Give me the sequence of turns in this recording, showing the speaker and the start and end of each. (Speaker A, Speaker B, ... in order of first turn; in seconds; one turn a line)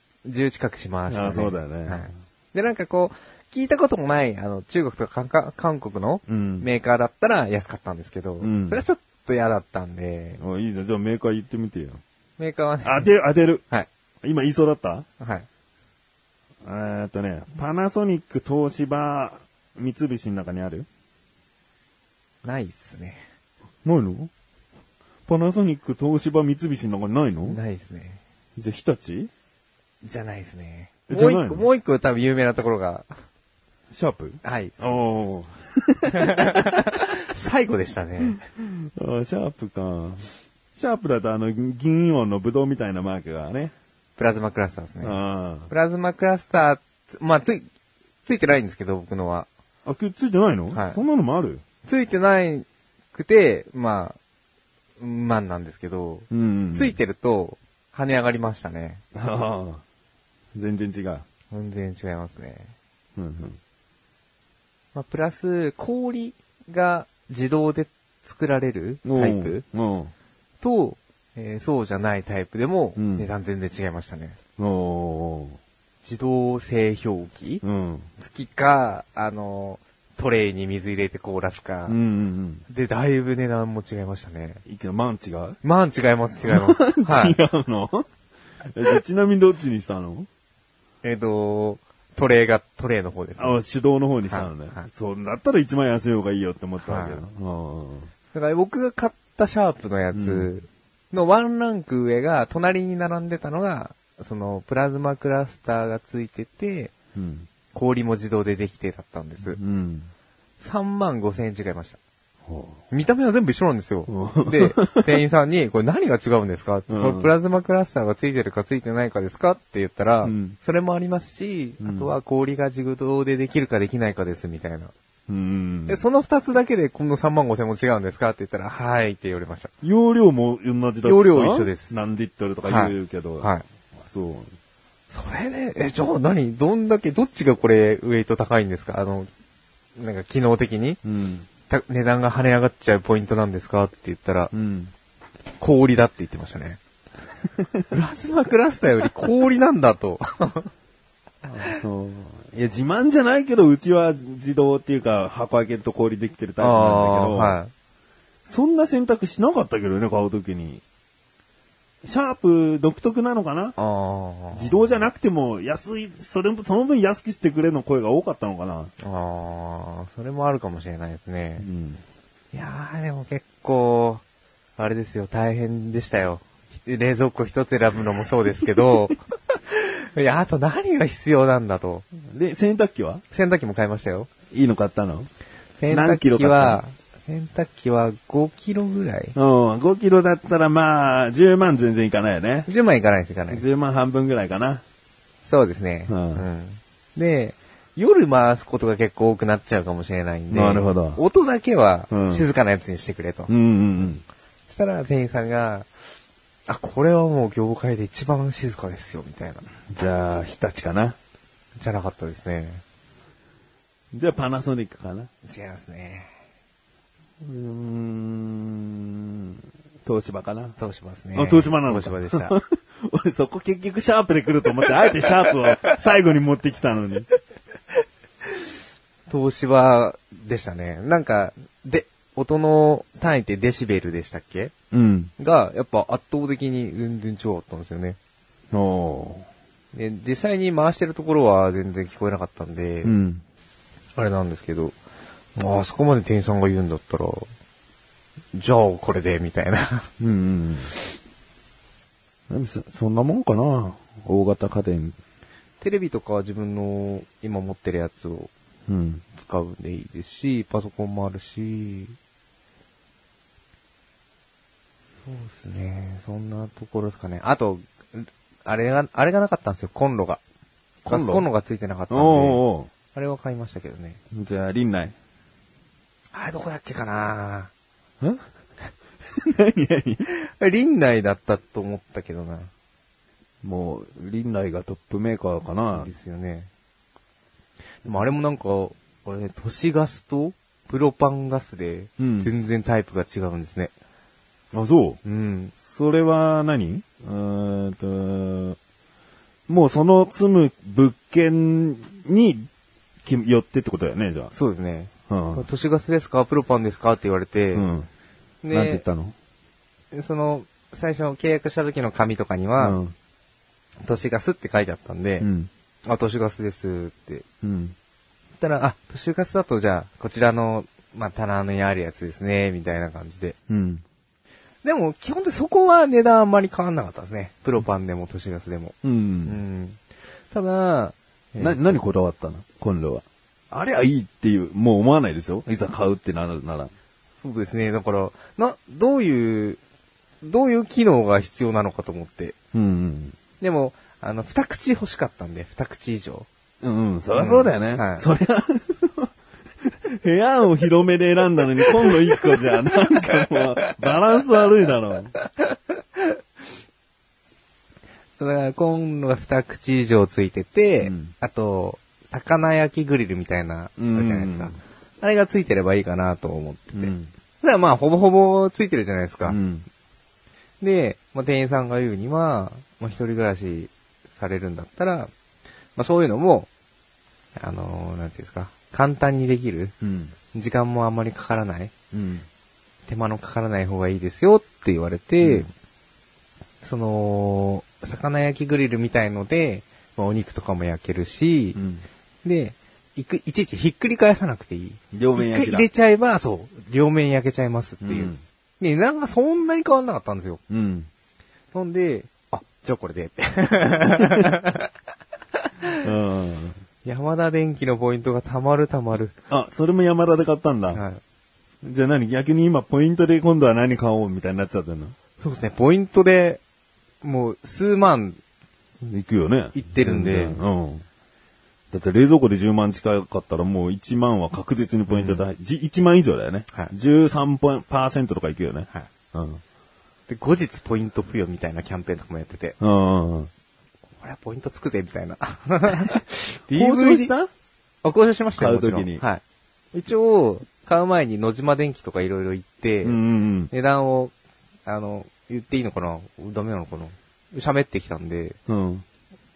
Speaker A: 0.2-10.4
Speaker B: 1.1-2.1
Speaker B: 6.3-6.7
Speaker B: 8.4-8.8
Speaker B: 10.4-12.0
Speaker A: 12.4-13.1
Speaker B: 12.8-13.6
Speaker B: 14.2-15.1
Speaker A: 15.2-15.5
Speaker B: 16.6-20.9
Speaker A: 22.4-23.2
Speaker B: 23.8-24.3
Speaker B: 25.3-27.6
Speaker A: 27.5-28.2
Speaker B: 28.6-29.3
Speaker A: 30.0-33.1
Speaker B: 31.1-31.7
Speaker B: 33.9-36.5
Speaker A: 34.4-35.0
Speaker A: 36.1-38.4
Speaker B: 38.5-43.7
Speaker A: 44.2-45.2
Speaker B: 45.0-45.7
Speaker A: 45.7-47.6
Speaker A: 48.2-49.5
Speaker B: 49.9-51.6
Speaker A: 50.7-51.0
Speaker A: 51.8-54.2
Speaker A: 55.0-59.0
Speaker B: 56.3-57.0
Speaker B: 59.1-59.8
Speaker B: 60.5-61.2
Speaker A: 61.5-62.7
Speaker B: 63.2-63.6
Speaker A: 64.9-69.6
Speaker B: 69.0-70.1
Speaker A: 70.6-74.4
Speaker B: 73.0-73.3
Speaker B: 74.6-75.6
Speaker A: 76.0-77.6
Speaker B: 77.6-78.1
Speaker A: 78.2-82.0
Speaker B: 81.9-82.6
Speaker A: 82.7-84.6
Speaker B: 84.7-85.6
Speaker A: 85.6-87.4
Speaker B: 86.5-88.0
Speaker B: 88.7-90.3
Speaker A: 91.0-93.6
Speaker B: 93.4-98.1
Speaker A: 94.2-94.9
Speaker A: 96.8-97.2
Speaker A: 98.3-106.9
Speaker B: 100.1-100.5
Speaker B: 107.1-107.5
Speaker A: 107.7-109.6
Speaker B: 109.5-110.1
Speaker A: 110.6-112.0
Speaker B: 112.5-112.8
Speaker A: 112.9-124.9
Speaker B: 114.1-115.1
Speaker B: 116.9-117.3
Speaker B: 120.2-120.6
Speaker B: 121.8-122.1
Speaker B: 125.3-126.0
Speaker A: 125.9-129.7
Speaker B: 129.8-134.5
Speaker A: 131.0-132.0
Speaker A: 132.7-133.7
Speaker A: 135.1-139.3
Speaker A: 140.0-141.0
Speaker B: 141.0-141.5
Speaker A: 141.7-144.5
Speaker B: 144.5-144.9
Speaker A: 145.6-146.8
Speaker A: 147.9-150.7
Speaker B: 151.5-157.6
Speaker A: 156.6-157.7
Speaker B: 158.4-160.8
Speaker B: 162.0-163.7
Speaker A: 163.8-165.1
Speaker B: 164.5-168.9
Speaker A: 169.0-171.7
Speaker B: 171.6-172.0
Speaker A: 172.5-174.2
Speaker A: 174.8-182.1
Speaker B: 182.3-183.2
Speaker A: 183.3-184.3
Speaker B: 184.5-185.3
Speaker A: 185.8-189.3
Speaker B: 185.9-186.8
Speaker B: 189.3-192.7
Speaker A: 192.7-193.6
Speaker B: 193.5-194.8
Speaker A: 195.4-204.1
Speaker B: 196.1-196.4
Speaker B: 200.5-201.2
Speaker B: 202.1-202.4
Speaker B: 203.5-204.2
Speaker A: 204.7-205.9
Speaker A: 206.7-209.7
Speaker B: 209.8-211.2
Speaker A: 211.8-212.8
Speaker B: 214.1-215.3
Speaker A: 215.4-216.3
Speaker B: 217.4-220.8
Speaker A: 220.8-222.5
Speaker B: 221.3-227.2
Speaker A: 229.3-234.7
Speaker B: 234.9-235.3
Speaker A: 235.4-238.2
Speaker B: 238.7-239.5
Speaker A: 239.9-243.1
Speaker B: 243.0-243.4
Speaker A: 244.2-245.0
Speaker A: 245.5-247.5
Speaker A: 248.5-250.1
Speaker B: 250.2-250.9
Speaker B: 252.5-255.2
Speaker A: 255.8-258.5
Speaker B: 258.9-259.3
Speaker A: 259.3-262.1
Speaker A: 265.2-270.4
Speaker B: 271.0-271.5
Speaker A: 271.1-272.6
Speaker B: 272.1-272.9
Speaker A: 273.1-274.2
Speaker B: 274.3-275.1
Speaker A: 276.3-277.7
Speaker B: 279.4-280.2
Speaker A: 280.2-282.7
Speaker B: 283.6-286.1
Speaker A: 285.9-286.7
Speaker A: 288.0-293.9
Speaker B: 292.2-292.5
Speaker B: 294.7-295.2
Speaker A: 295.2-295.7
Speaker B: 295.8-298.8
Speaker B: 299.7-302.7
Speaker B: 303.2-304.5
Speaker A: 304.5-307.9
Speaker B: 305.3-305.6
Speaker B: 307.7-308.1
Speaker A: 308.6-309.0
Speaker B: 308.7-309.3
Speaker A: 310.1-313.0
Speaker B: 312.8-313.1
Speaker A: 314.0-315.5
Speaker B: 315.4-315.7
Speaker A: 316.1-317.4
Speaker B: 317.6-317.9
Speaker A: 318.6-323.5
Speaker B: 323.7-324.0
Speaker A: 324.8-330.0
Speaker B: 329.0-329.6
Speaker A: 330.5-332.0
Speaker B: 331.6-336.9
Speaker A: 337.4-339.8
Speaker A: 340.4-342.5
Speaker B: 342.7-343.4
Speaker A: 343.6-346.5
Speaker B: 346.8-349.3
Speaker A: 347.3-348.2
Speaker B: 349.9-355.3
Speaker A: 352.0-353.1
Speaker A: 358.4-369.6
Speaker B: 361.0-361.3
Speaker B: 364.0-364.8
Speaker B: 366.9-367.3
Speaker B: 369.4-369.9
Speaker A: 370.8-375.3
Speaker A: 375.9-376.7
Speaker A: 377.6-379.9
Speaker B: 380.0-380.3
Speaker A: 380.5-381.9
Speaker B: 382.1-382.4
Speaker A: 383.1-385.7
Speaker B: 385.4-385.7
Speaker A: 386.8-391.8
Speaker B: 391.7-392.0
Speaker A: 392.4-400.6
Speaker B: 395.1-395.9
Speaker B: 398.0-398.4
Speaker B: 400.7-401.1
Speaker A: 401.7-404.9
Speaker B: 406.0-406.8
Speaker A: 407.0-409.3
Speaker B: 409.5-411.0
Speaker A: 410.9-411.2
Speaker B: 411.8-415.1
Speaker A: 415.4-416.6
Speaker A: 417.2-418.4
Speaker B: 419.0-421.0
Speaker A: 419.7-420.6
Speaker B: 421.9-429.6
Speaker A: 425.1-425.4
Speaker A: 430.3-432.8
Speaker B: 432.8-433.5
Speaker A: 434.2-437.3
Speaker B: 436.7-437.5
Speaker A: 438.0-443.2
Speaker B: 438.6-439.2
Speaker B: 443.0-443.7
Speaker A: 443.7-444.3
Speaker A: 444.9-448.6
Speaker B: 448.7-449.0